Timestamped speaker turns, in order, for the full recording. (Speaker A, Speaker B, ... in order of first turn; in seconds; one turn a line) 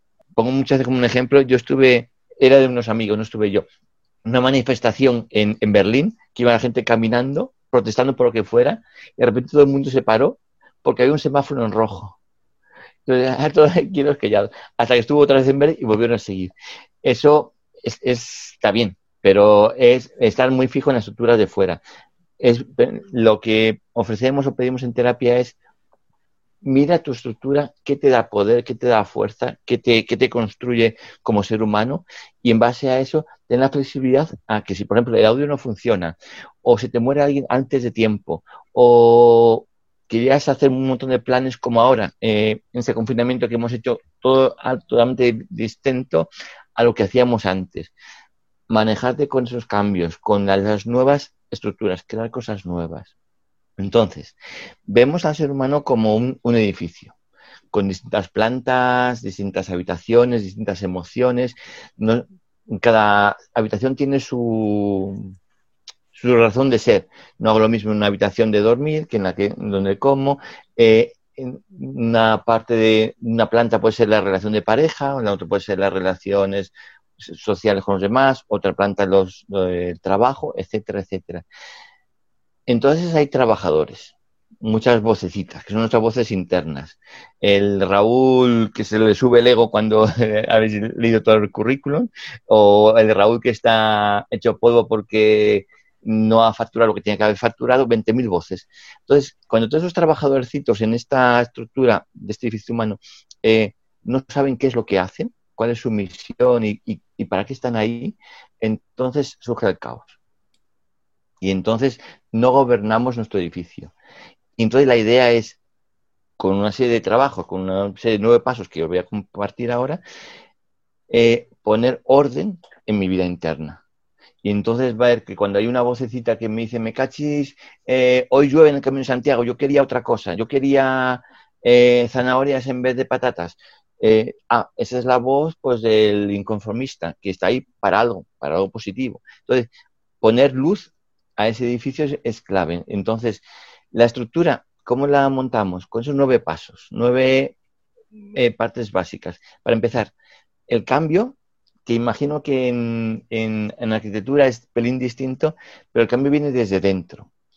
Speaker A: 0.3-3.6
Speaker A: 4.2-12.2
Speaker A: 13.1-21.8
Speaker A: 22.4-25.6
Speaker A: 26.6-47.9
Speaker A: 48.7-53.1
Speaker A: 53.8-57.1
Speaker A: 57.7-65.3
Speaker A: 66.1-81.4
Speaker A: 82.7-110.2
Speaker A: 111.4-113.9
Speaker A: 114.6-115.6
Speaker A: 116.4-120.0
Speaker A: 121.1-123.8
Speaker A: 124.4-139.7
Speaker A: 140.2-147.6
Speaker A: 148.3-150.1
Speaker A: 150.7-157.3